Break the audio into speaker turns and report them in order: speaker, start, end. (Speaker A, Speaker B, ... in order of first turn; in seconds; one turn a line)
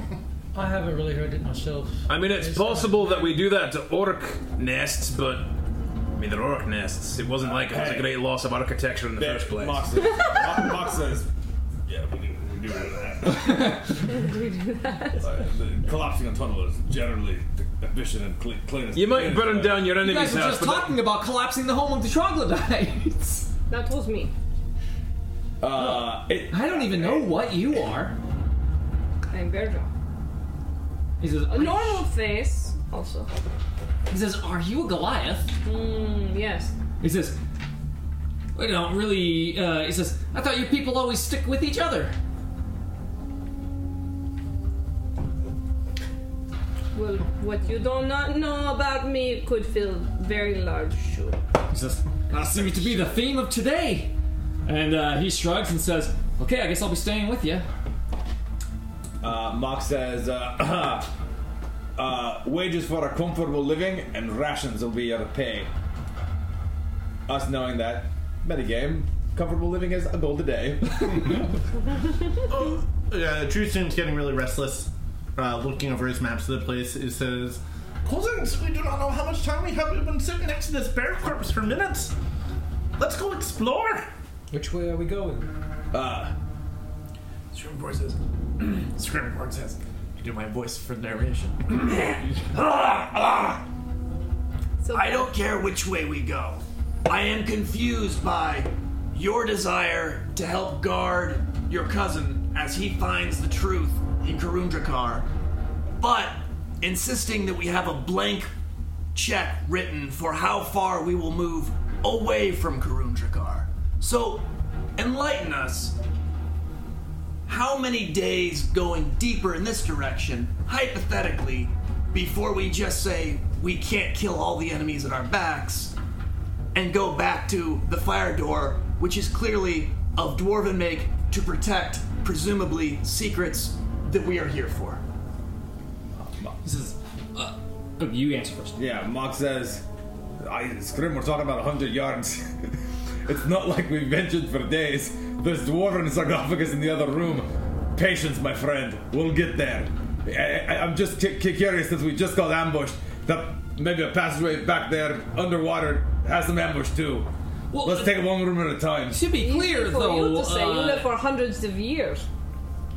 Speaker A: 0.5-3.4
Speaker B: 2.1-5.5
Speaker B: 6.2-10.0
Speaker C: 7.5-8.2
Speaker C: 9.2-11.3
Speaker D: 10.2-10.6
Speaker C: 11.9-14.3
Speaker D: 14.1-15.2
Speaker C: 15.2-19.9
Speaker B: 18.9-21.0
Speaker E: 20.0-23.5
Speaker D: 23.7-24.3
Speaker C: 25.6-27.4
Speaker E: 25.7-28.2
Speaker D: 29.3-29.9
Speaker E: 31.2-32.1
Speaker D: 31.5-33.3
Speaker E: 34.1-35.5
Speaker D: 35.6-36.7
Speaker E: 37.0-37.4
Speaker E: 38.5-42.1
Speaker D: 46.9-51.4
Speaker E: 51.7-54.1
Speaker C: 52.3-53.1
Speaker E: 54.6-57.7
Speaker C: 59.2-61.1
Speaker C: 62.0-65.7
Speaker C: 67.3-71.5
Speaker F: 72.5-82.1
Speaker F: 83.0-84.1
Speaker A: 84.5-85.5
Speaker C: 85.9-86.3
Speaker G: 87.5-93.6
Speaker D: 94.8-95.3
Speaker G: 94.9-105.3
Speaker G: 106.0-108.5
Speaker G: 109.1-116.0
Speaker G: 117.5-125.9
Speaker G: 126.7-135.0
Speaker E: 136.6-138.8
Speaker C: 138.8-139.8
Speaker C: 140.4-157.3
Speaker E: 157.7-158.2
Speaker C: 157.8-159.2
Speaker E: 159.1-161.1
Speaker D: 159.3-162.3